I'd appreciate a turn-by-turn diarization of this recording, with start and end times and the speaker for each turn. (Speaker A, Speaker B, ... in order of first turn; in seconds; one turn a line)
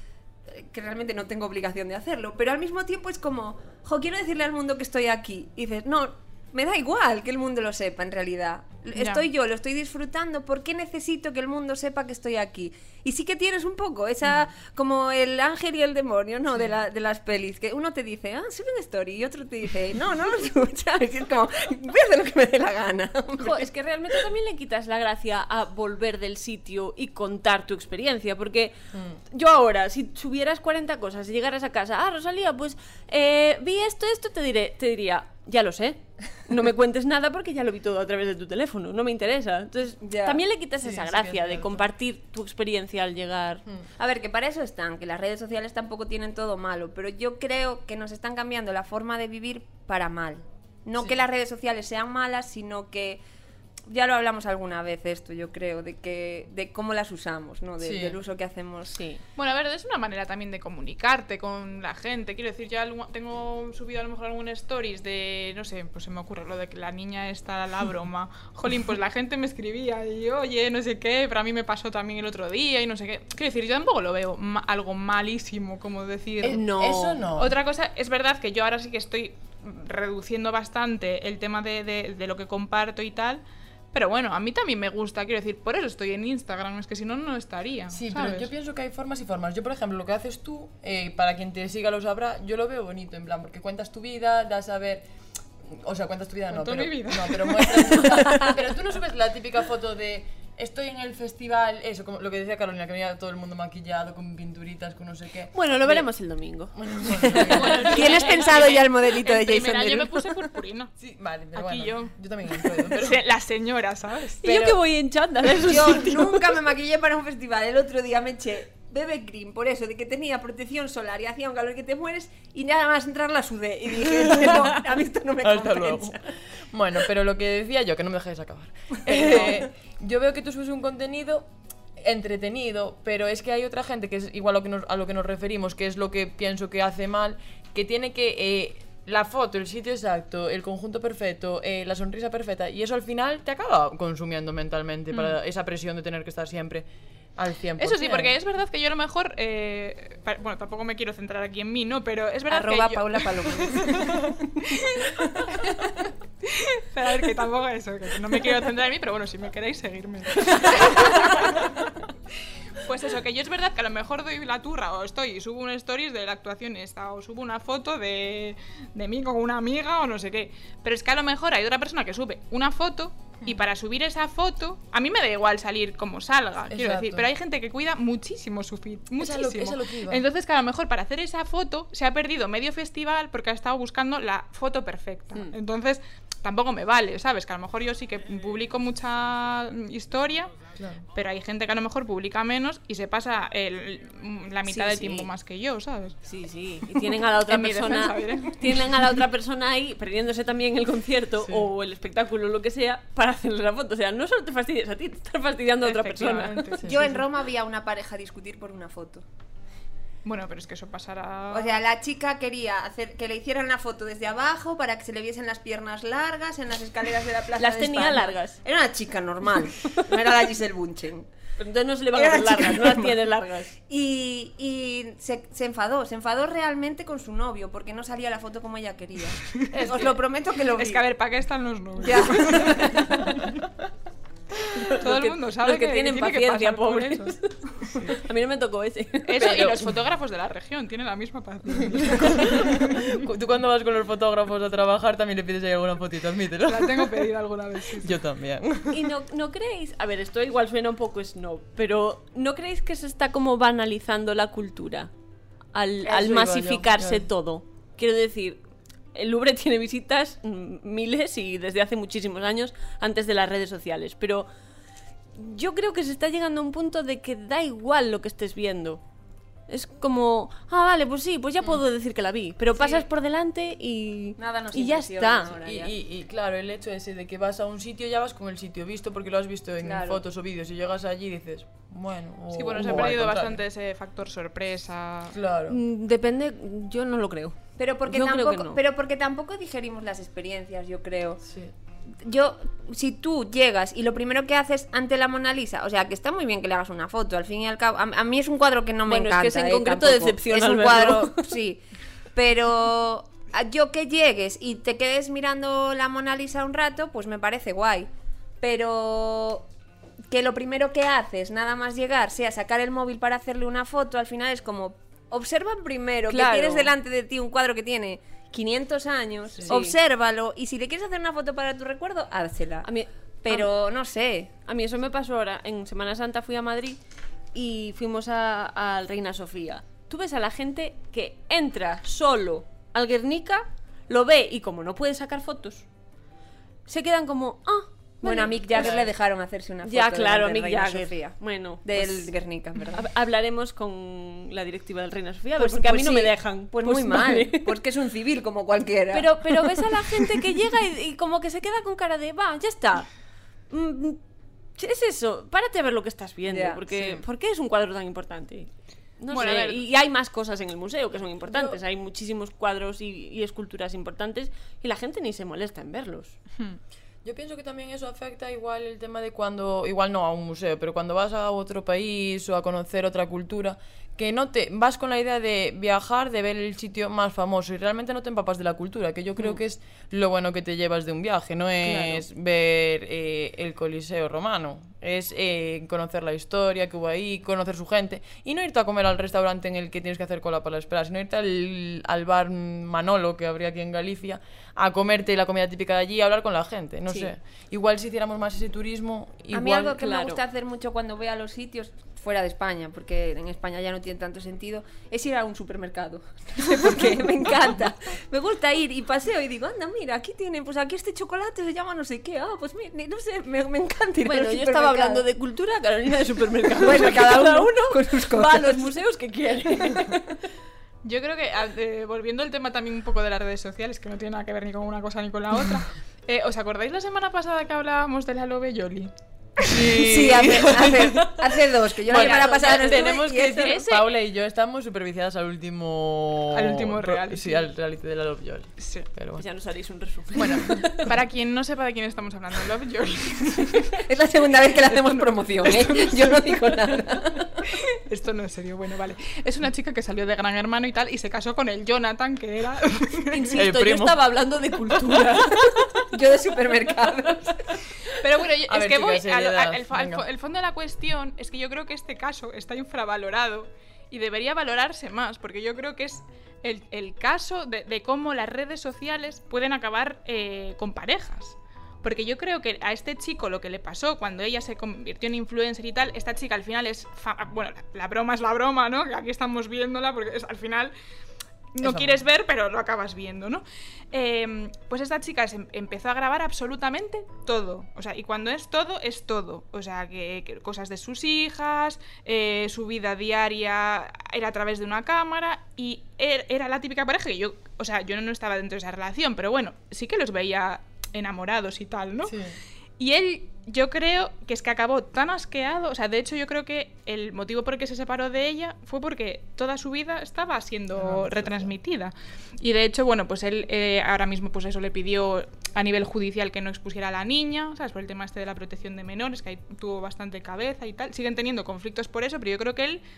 Speaker A: 0.5-23.7
Speaker B: 9.0-9.2
Speaker C: 23.4-28.8
Speaker D: 28.9-29.2
Speaker C: 29.3-43.6
Speaker A: 40.0-40.4
Speaker D: 40.8-41.8
Speaker A: 44.0-53.2
Speaker A: 53.9-59.0
Speaker D: 57.8-58.2
Speaker C: 58.9-59.2
Speaker B: 59.4-76.7
Speaker D: 76.4-77.6
Speaker C: 76.5-77.2
Speaker B: 77.3-83.4
Speaker B: 83.9-88.5
Speaker D: 87.9-95.0
Speaker D: 95.6-106.1
Speaker B: 96.5-98.2
Speaker C: 105.5-108.5
Speaker D: 106.7-108.0
Speaker A: 107.2-110.5
Speaker B: 107.4-110.9
Speaker D: 111.0-113.2
Speaker B: 111.5-114.8
Speaker C: 114.4-116.6
Speaker A: 115.6-126.4
Speaker D: 124.2-124.8
Speaker D: 125.4-148.3
Speaker A: 129.0-129.7
Speaker B: 147.8-162.0
Speaker A: 152.5-154.4
Speaker B: 162.8-190.6
Speaker D: 176.7-177.3
Speaker D: 179.2-180.2
Speaker D: 190.8-191.0
Speaker B: 191.1-196.2
Speaker C: 194.7-195.3
Speaker C: 196.2-206.8
Speaker B: 196.9-199.2
Speaker D: 201.4-201.7
Speaker B: 205.8-207.2
Speaker D: 206.8-207.1
Speaker A: 206.8-209.2
Speaker B: 210.2-211.8
Speaker A: 211.5-221.3
Speaker C: 217.6-218.6
Speaker C: 221.6-223.7
Speaker A: 222.1-223.2
Speaker A: 223.9-231.1
Speaker B: 229.6-230.2
Speaker B: 230.7-233.4
Speaker A: 232.0-233.3
Speaker C: 234.7-239.8
Speaker B: 235.0-237.4
Speaker D: 237.9-238.1
Speaker B: 239.2-243.3
Speaker D: 239.4-240.0
Speaker D: 241.8-247.3
Speaker B: 246.7-248.2
Speaker D: 248.0-249.1
Speaker C: 248.9-255.1
Speaker C: 255.7-258.6
Speaker D: 256.0-257.3
Speaker C: 259.1-264.5
Speaker C: 265.4-269.0
Speaker C: 269.7-275.6
Speaker A: 274.4-275.9
Speaker D: 275.6-283.6
Speaker A: 279.8-280.2
Speaker B: 282.5-285.4
Speaker D: 285.3-285.8
Speaker C: 285.7-287.6
Speaker A: 287.8-291.4
Speaker C: 288.1-288.8
Speaker D: 291.4-291.7
Speaker A: 292.2-301.8
Speaker C: 299.1-301.5
Speaker A: 302.3-308.1
Speaker A: 308.6-309.7
Speaker A: 310.3-322.9
Speaker C: 316.3-316.9
Speaker D: 319.6-319.8
Speaker C: 319.7-320.0
Speaker C: 322.8-323.7
Speaker A: 323.4-324.5
Speaker C: 324.6-327.0
Speaker C: 327.5-335.9
Speaker C: 336.9-339.0
Speaker A: 338.2-343.0
Speaker D: 338.8-339.1
Speaker C: 339.8-342.3
Speaker C: 342.9-347.8
Speaker A: 345.6-350.3
Speaker C: 349.1-353.1
Speaker C: 353.7-354.2
Speaker C: 354.8-366.4
Speaker A: 356.5-356.8
Speaker D: 356.9-357.2
Speaker B: 359.3-359.9
Speaker D: 361.4-361.8
Speaker D: 367.2-400.0
Speaker C: 381.8-382.2
Speaker A: 399.5-415.2
Speaker C: 399.9-400.4
Speaker C: 414.2-420.4
Speaker A: 416.8-418.9
Speaker B: 421.0-429.1
Speaker D: 429.7-431.5
Speaker A: 429.9-433.8
Speaker D: 432.1-439.4
Speaker C: 432.1-434.1
Speaker B: 436.5-437.7
Speaker B: 438.8-439.1
Speaker C: 439.4-441.1
Speaker B: 440.4-444.0
Speaker A: 444.1-447.7
Speaker B: 445.0-446.5
Speaker B: 447.7-453.5
Speaker C: 453.3-456.0
Speaker D: 453.5-454.2
Speaker A: 456.1-457.8
Speaker B: 458.1-480.9
Speaker D: 458.7-460.2
Speaker B: 481.7-502.4
Speaker D: 481.8-482.2
Speaker D: 502.2-502.6
Speaker B: 503.0-523.0
Speaker D: 511.0-511.7